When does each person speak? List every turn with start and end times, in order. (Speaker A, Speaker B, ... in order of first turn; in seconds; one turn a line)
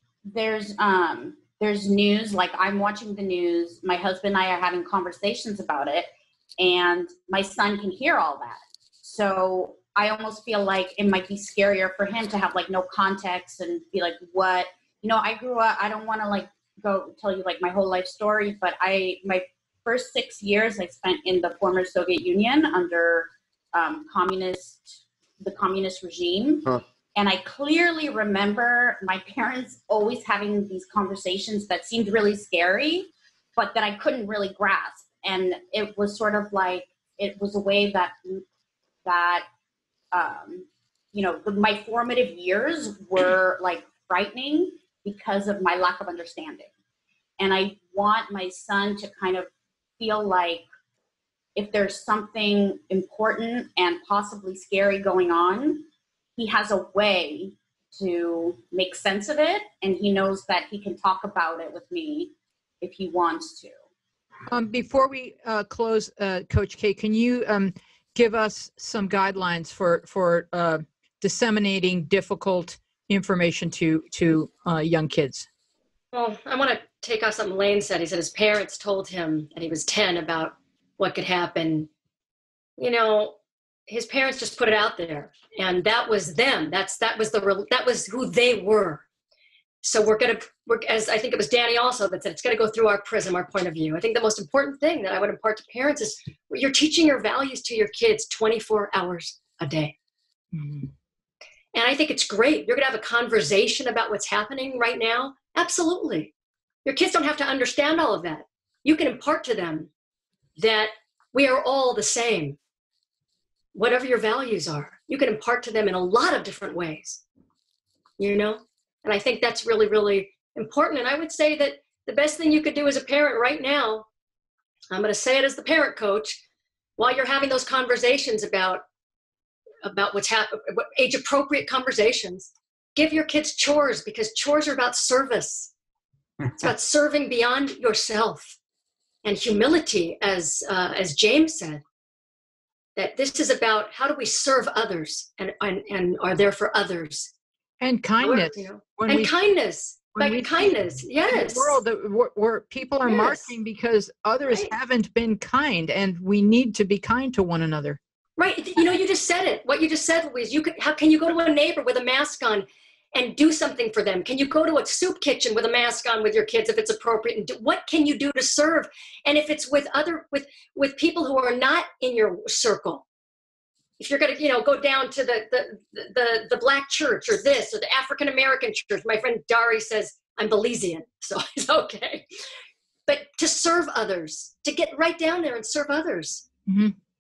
Speaker A: 0.3-38.5
Speaker A: 39.0-39.5
Speaker A: 40.1-46.7
Speaker A: 47.4-50.7
Speaker A: 51.6-63.8
Speaker B: 64.5-75.5
Speaker C: 76.1-81.9
Speaker C: 82.8-83.4
Speaker C: 83.9-89.0
Speaker C: 89.8-99.9
Speaker B: 100.5-100.9
Speaker C: 101.7-106.3
Speaker C: 106.8-109.9
Speaker C: 110.6-112.6
Speaker C: 113.7-117.2
Speaker C: 118.2-124.1
Speaker C: 124.9-126.4
Speaker C: 127.0-128.8
Speaker C: 129.8-135.7
Speaker C: 136.5-138.6
Speaker C: 139.2-141.8
Speaker C: 143.0-147.3
Speaker B: 147.8-149.3
Speaker C: 148.2-151.8
Speaker B: 150.2-158.0
Speaker C: 153.1-153.5
Speaker C: 158.4-173.1
Speaker C: 174.0-182.3
Speaker C: 183.1-186.5
Speaker B: 186.7-186.9